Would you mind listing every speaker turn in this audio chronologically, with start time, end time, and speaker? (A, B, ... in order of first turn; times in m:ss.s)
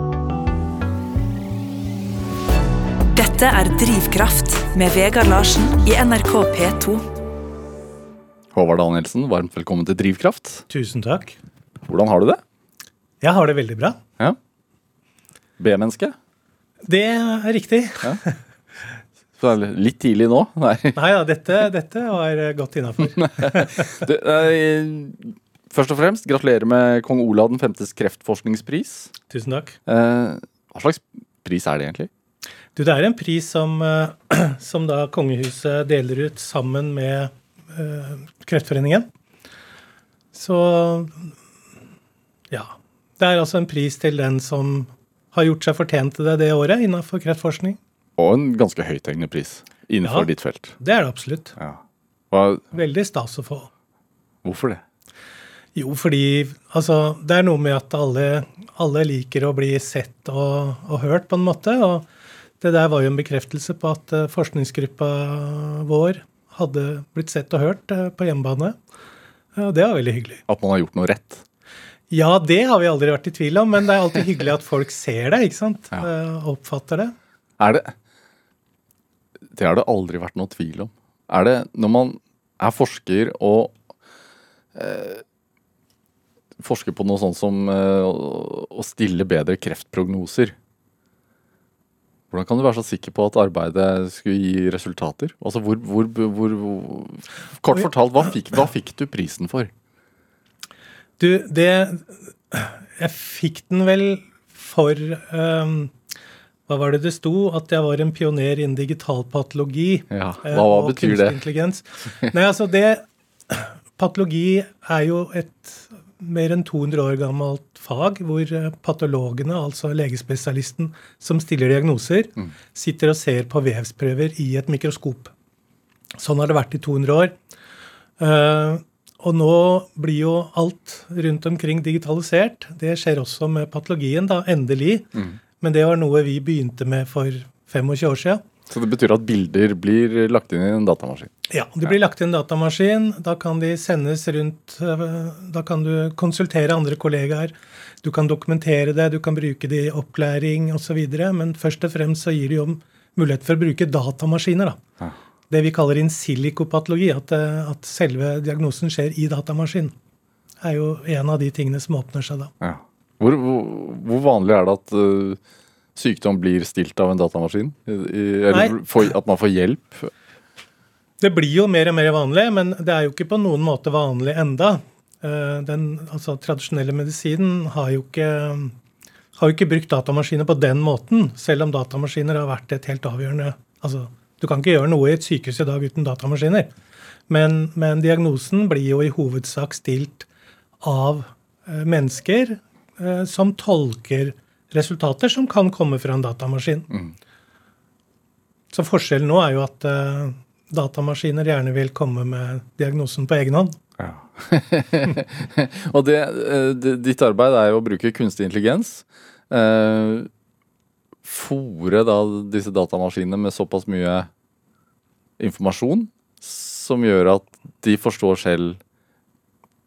0:03.1-0:07.0 A
0:08.5-0:10.6 B
0:10.7-0:11.4 C
0:11.8-0:12.4 B
0:13.2-0:14.0 C
0:15.6-0:16.2 B
0:16.8-0:18.4 C
0:19.4-0:21.0 B
0:20.9-0:23.9 C
0:23.2-0:29.1 B
0:29.3-0:29.8 C
0:29.9-0:32.1 B
0:32.8-0:39.1 C
0:40.3-0:41.3 C
0:42.5-0:47.8 C
0:48.2-0:50.8 B
0:50.0-0:51.5 C
0:51.6-0:52.7 B
0:52.7-0:53.7 C
0:54.4-0:54.8 B
0:55.7-1:02.0 C
1:02.6-1:08.8 C
1:09.6-1:10.4 C
1:10.5-1:11.4 B
1:12.1-1:17.1 C
1:17.6-1:17.9 B
1:19.5-1:23.7 B
1:24.7-1:25.2 B
1:26.6-1:30.6 B
1:32.3-1:39.7 B
1:41.2-1:45.9 C
1:46.7-2:05.3 C
1:50.1-1:51.4 B
2:06.2-2:07.3 C
2:08.2-2:15.1 C
2:15.6-2:18.4 C
2:18.7-2:21.3 B
2:21.5-2:34.8 C
2:35.5-2:39.9 C
2:40.6-2:42.5 C
2:42.6-2:45.4 B
2:45.9-2:50.1 B
2:48.5-2:48.8 C
2:51.2-2:58.7 C
2:59.4-3:06.7 C
3:07.3-3:10.3 C
3:10.8-3:16.9 C
3:18.7-3:23.8 C
3:24.0-3:30.3 B
3:31.2-3:34.3 B
3:35.4-3:38.8 B